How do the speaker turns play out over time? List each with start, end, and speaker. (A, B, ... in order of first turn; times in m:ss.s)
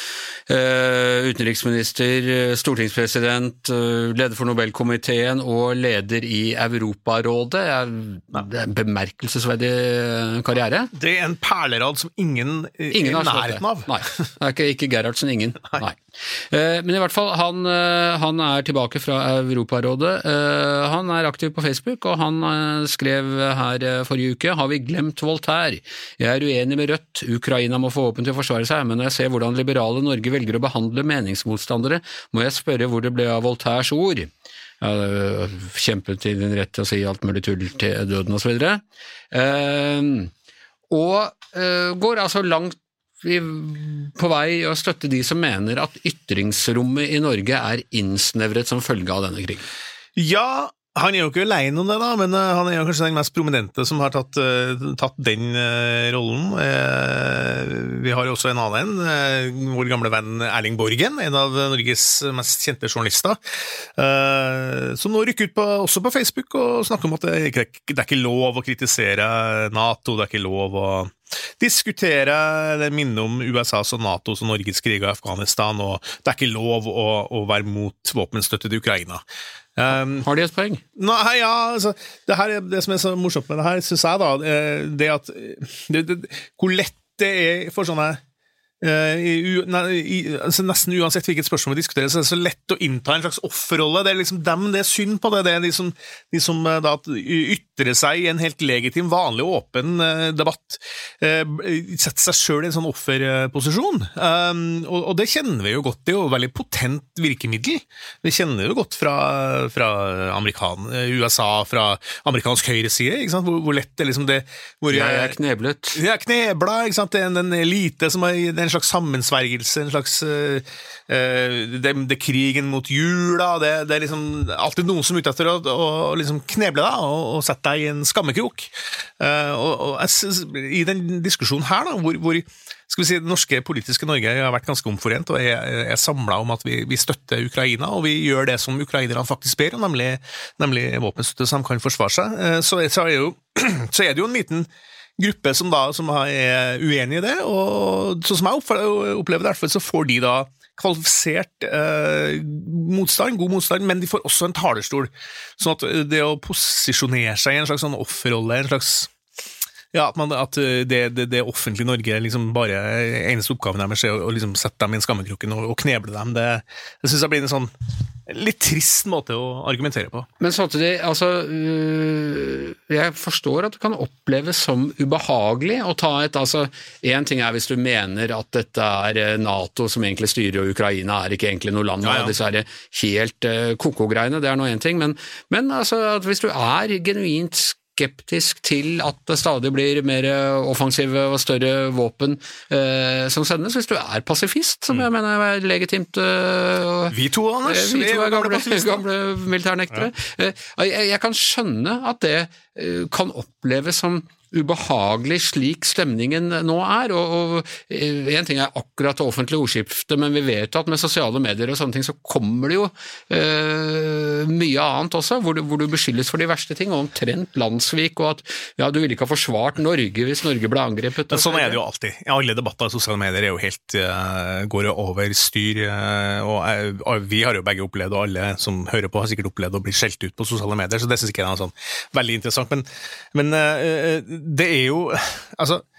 0:00.5-0:10.9 A
0:10.9-0:14.0 B
0:12.9-0:34.3 A
0:34.8-0:40.3 A
0:40.9-0:49.6 A
0:50.2-1:03.4 B
1:04.0-1:19.2 B
1:19.8-1:20.2 B
1:20.1-1:20.8 A
1:21.0-1:28.2 B
1:28.8-1:55.4 B
1:54.9-1:56.0 A
1:55.9-2:39.1 B
2:39.9-2:47.7 B
2:48.3-2:50.3 B
2:50.4-3:41.8 A
3:02.0-3:02.4 B
3:17.1-3:19.0 B
3:41.3-3:55.8 B